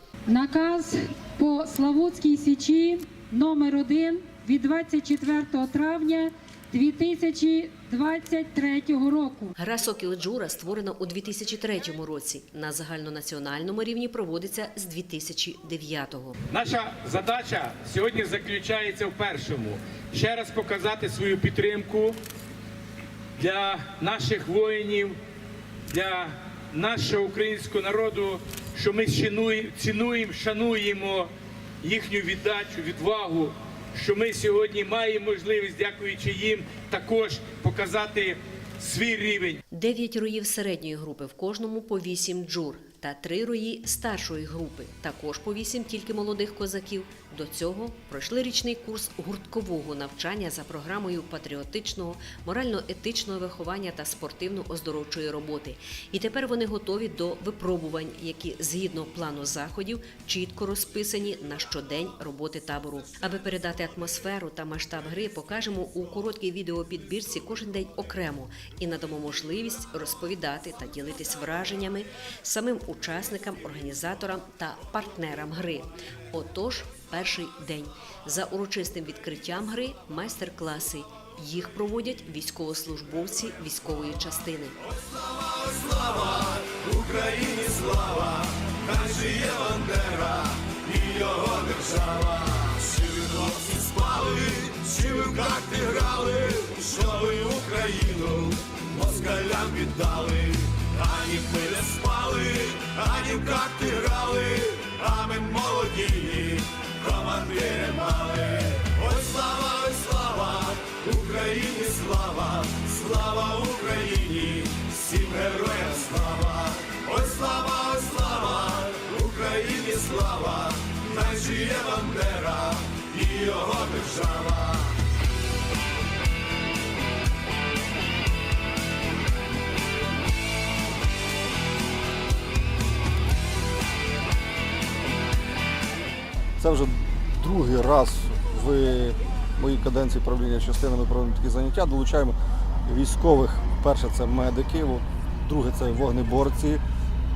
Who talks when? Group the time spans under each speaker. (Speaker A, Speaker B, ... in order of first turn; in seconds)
Speaker A: 0.3-9.5
Speaker B: 9.6-16.4, 39.7-84.8
Speaker C: 16.5-22.2, 23.4-25.2, 25.9-39.6
Speaker D: 85.0-124.9
Speaker E: 136.6-146.8